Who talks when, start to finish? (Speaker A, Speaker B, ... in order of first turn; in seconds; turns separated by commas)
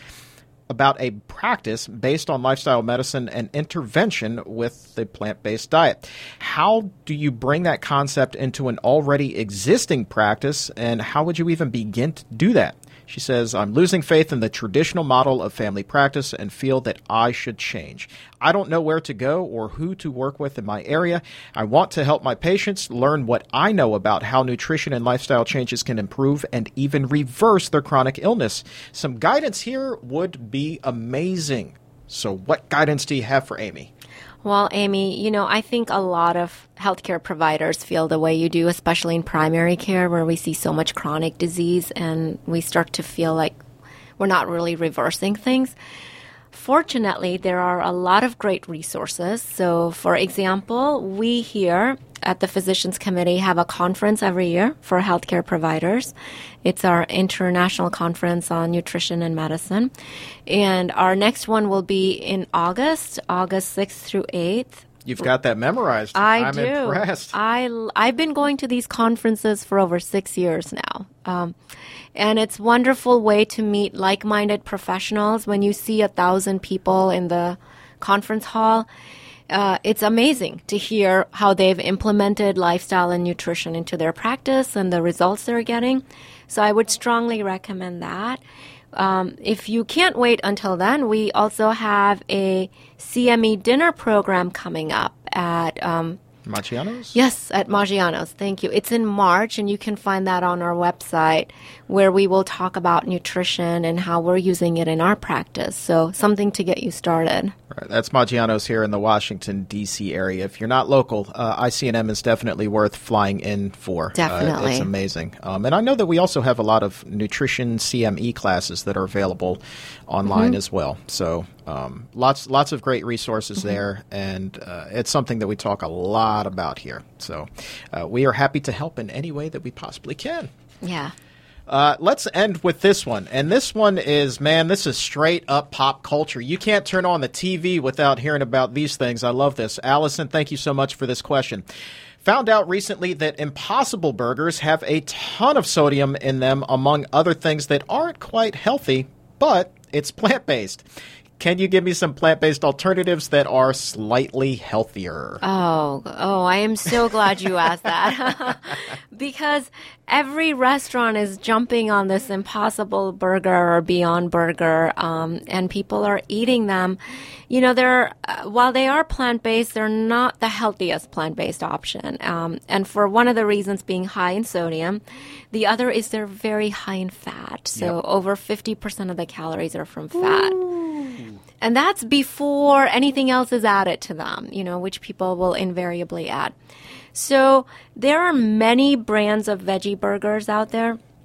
Speaker A: 0.7-33.9, Speaker B: 34.4-43.6, Speaker B: 44.2-45.7, Speaker B: 46.5-59.9, Speaker B: 60.5-64.9, Speaker A: 65.0-67.3, Speaker B: 66.1-71.5, Speaker B: 72.1-78.9, Speaker B: 79.5-88.4, Speaker B: 88.9-96.2, Speaker A: 96.5-97.2, Speaker B: 97.1-107.5, Speaker A: 107.7-130.5, Speaker B: 114.1-114.9, Speaker B: 120.3-120.5, Speaker B: 130.8-131.1, Speaker A: 131.7-141.6, Speaker A: 142.2-150.8, Speaker A: 151.4-155.4, Speaker B: 155.4-180.6, Speaker A: 180.2-181.3, Speaker B: 181.6-186.5, Speaker B: 187.1-191.0